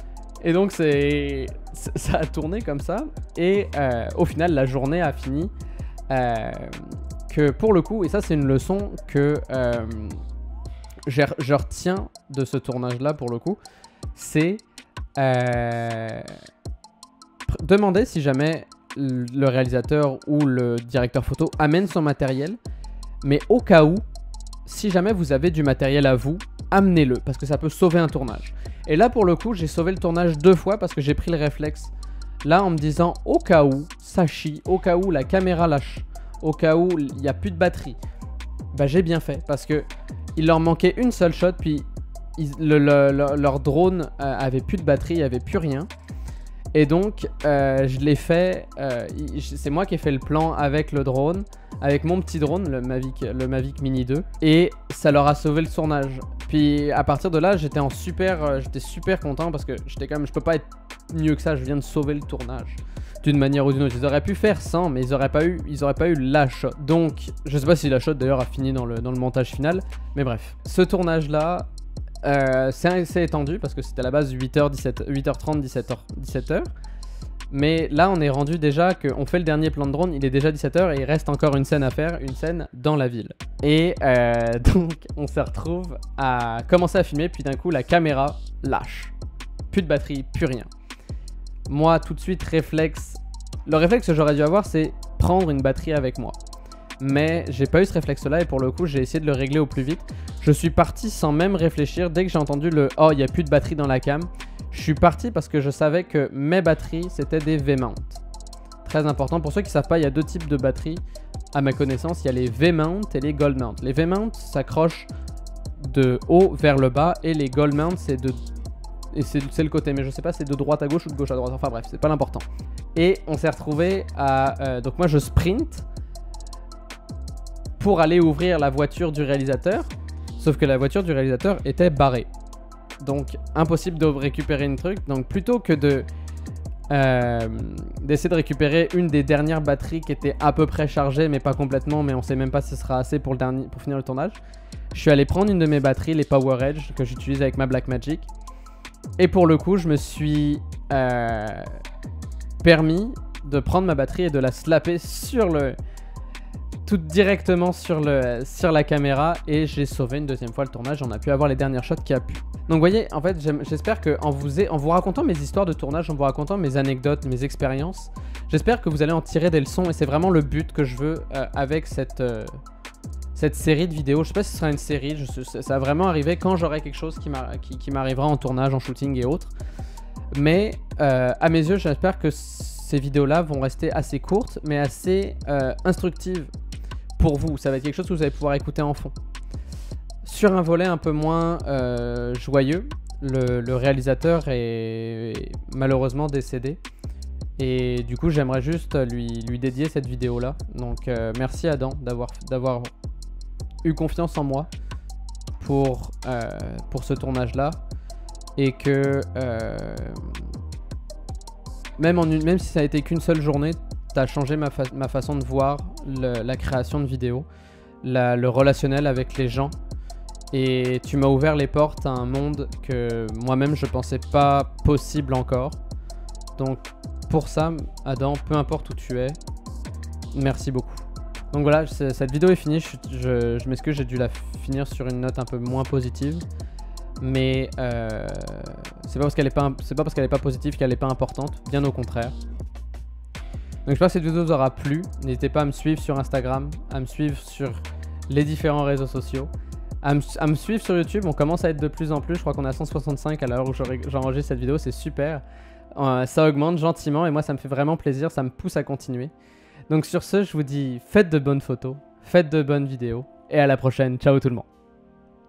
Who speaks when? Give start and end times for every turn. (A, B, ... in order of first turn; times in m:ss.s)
0:00.4-0:05.5 A
0:06.1-0:10.2 A
0:11.1-0:13.6 A
0:14.1-0:14.6 A
0:15.2-0:16.3 A
0:17.5-0:22.6 A
0:23.2-0:24.0 A
0:24.6-0:31.9 A
0:32.4-0:38.0 A
0:38.7-0:41.8 A
0:42.4-0:45.9 A
0:46.7-1:11.7 A
1:12.2-1:16.7 A
1:17.5-1:29.1 A
1:29.7-1:30.7 A
1:31.7-1:36.4 A
1:37.0-1:48.2 A
1:48.8-1:51.0 A
1:51.5-1:55.1 A
1:55.8-1:58.4 A
1:59.1-2:05.8 A
2:07.8-2:12.3 A
2:13.0-2:16.1 A
2:16.9-2:24.4 A
2:24.9-2:28.3 A
2:29.2-2:31.7 A
2:32.6-2:35.8 A
2:36.8-2:52.5 A
2:53.3-2:59.5 A
3:00.3-3:06.5 A
3:07.2-3:09.1 A
3:10.2-3:16.8 A
3:17.6-3:22.9 A
3:23.8-3:24.7 A
3:25.6-3:27.8 A
3:28.6-3:30.3 A
3:32.0-3:37.4 A
3:38.0-3:39.7 A
3:40.5-3:45.8 A
3:46.6-3:49.4 A
3:50.3-3:56.4 A
3:57.2-4:02.4 A
4:03.8-4:09.5 A
4:10.0-4:15.4 A
4:15.9-4:19.3 A
4:19.9-4:24.7 A